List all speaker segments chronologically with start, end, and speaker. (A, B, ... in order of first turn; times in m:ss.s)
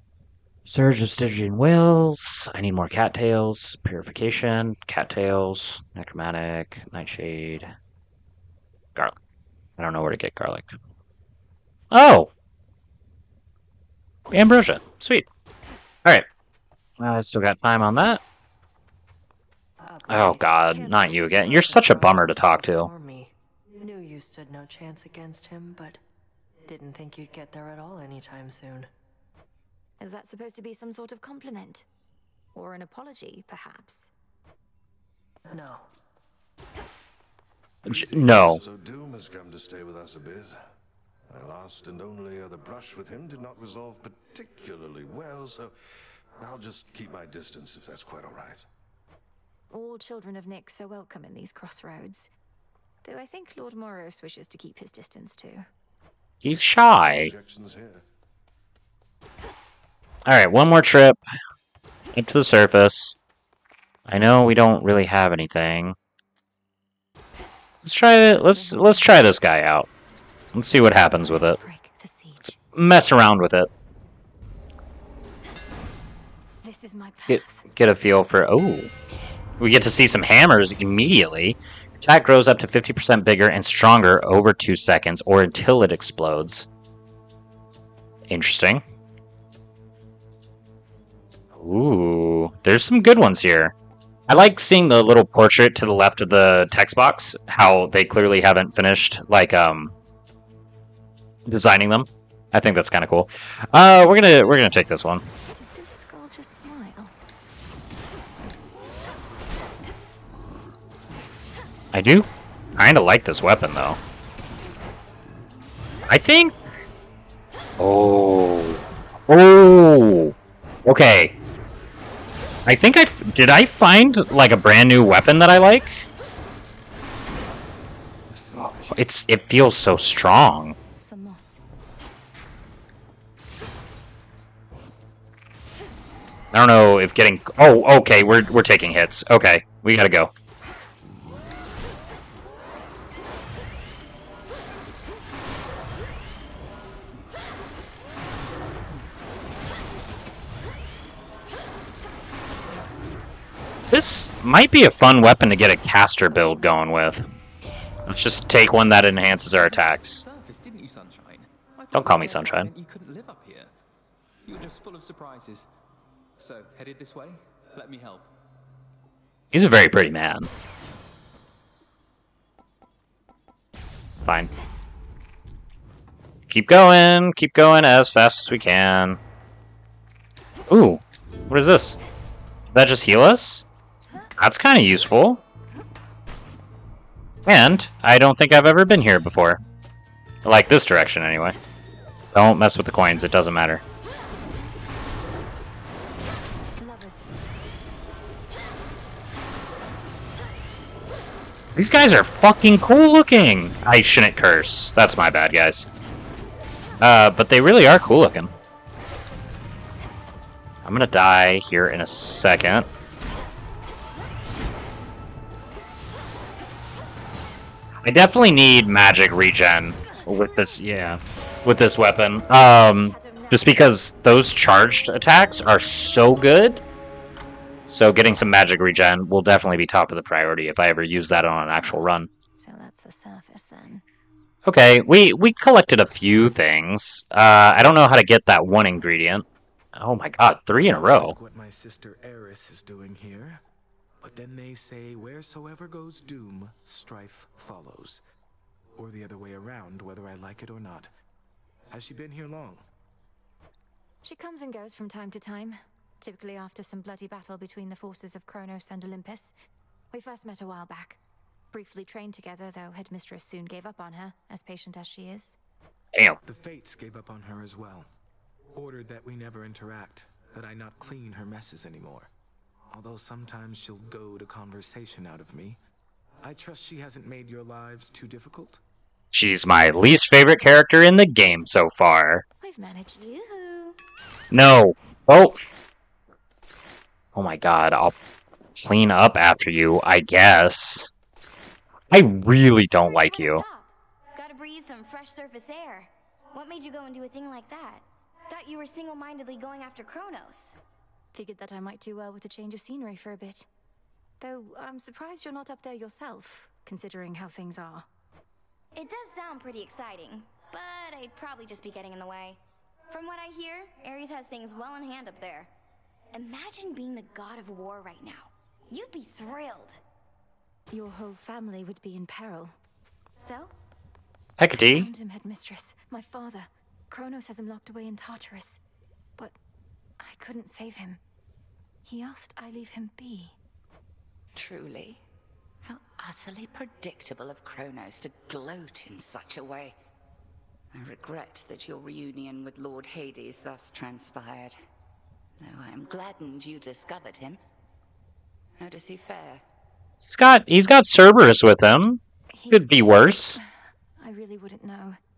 0:00.7-0:07.7 A
0:09.8-0:10.7 A
0:11.9-0:12.3 A
0:14.3-0:15.4 A
0:17.0-0:18.2 A
0:19.8-0:26.0 B
0:20.1-0:22.9 A
0:26.6-0:28.9 B
0:30.0-0:31.9 C
0:32.5-0:34.1 C
0:35.5-0:35.8 B
0:37.8-0:38.6 A
0:37.8-0:40.5 D
0:41.3-0:45.7 D
0:46.4-0:48.6 D
0:49.7-0:52.3 C
0:53.0-0:55.6 C
0:56.4-0:57.3 A
0:57.0-0:58.0 D
1:00.3-1:01.2 A
1:02.1-1:03.2 A
1:04.1-1:06.0 A
1:07.8-1:09.9 A
1:08.5-1:09.2 C
1:10.5-1:11.6 A
1:11.0-1:12.5 C
1:12.4-1:13.7 A
1:16.6-1:17.6 C
1:17.2-1:18.9 A
1:19.6-1:26.7 A
1:28.3-1:28.8 A
1:31.5-1:33.7 A
1:34.3-1:39.9 A
1:41.5-1:45.2 A
1:45.5-1:47.1 C
1:51.9-1:54.0 A
1:56.1-1:56.6 A
1:57.8-2:01.3 A
2:02.7-2:05.9 A
2:08.3-2:10.8 A
2:11.0-2:11.6 C
2:16.5-2:20.3 A
2:33.9-2:37.3 A
2:38.1-2:40.2 A
2:39.5-2:43.7 E
2:41.9-2:42.7 A
2:44.4-2:45.7 E
2:46.4-2:48.3 E
2:49.5-2:50.5 A
2:54.2-2:54.5 A
2:56.5-2:59.2 A
3:00.7-3:02.0 A
3:02.7-3:03.6 A
3:04.4-3:05.4 A
3:07.4-3:09.6 A
3:10.4-3:11.6 A
3:12.3-3:13.8 A
3:16.8-3:17.3 C
3:21.8-3:25.9 A
3:27.0-3:28.5 A
3:30.8-3:32.9 A
3:38.0-3:46.8 A
3:40.0-3:40.7 C
3:42.6-3:43.8 C
3:47.9-3:52.3 A
3:51.7-3:54.0 C
3:54.6-4:01.3 A
4:00.8-4:03.6 F
4:04.2-4:08.2 F
4:09.0-4:11.1 F
4:11.9-4:12.8 F
4:14.2-4:19.5 C
4:20.1-4:21.2 C
4:21.7-4:25.6 C
4:26.4-4:28.1 F
4:28.7-4:32.3 F
4:32.9-4:35.8 F
4:36.4-4:38.8 F
4:39.3-4:42.4 A
4:42.6-4:43.3 C
4:43.2-4:44.0 G
4:44.5-4:45.6 A
4:47.3-4:48.1 A
4:48.8-4:51.1 A
4:52.1-4:53.6 A
4:53.0-5:00.8 G
5:01.3-5:03.7 C
5:04.4-5:08.0 C
5:08.9-5:15.7 G
5:16.3-5:20.0 G
5:20.9-5:22.8 C
5:23.4-5:23.7 G
5:24.6-5:25.1 A
5:24.7-5:28.8 C
5:30.2-5:31.2 C
5:32.0-5:33.6 C
5:34.5-5:35.2 H
5:35.8-5:40.0 H
5:40.9-5:44.8 H
5:45.6-5:47.6 H
5:48.8-5:49.6 H
5:50.2-5:53.6 A
5:52.5-5:52.9 C
5:54.2-5:55.2 C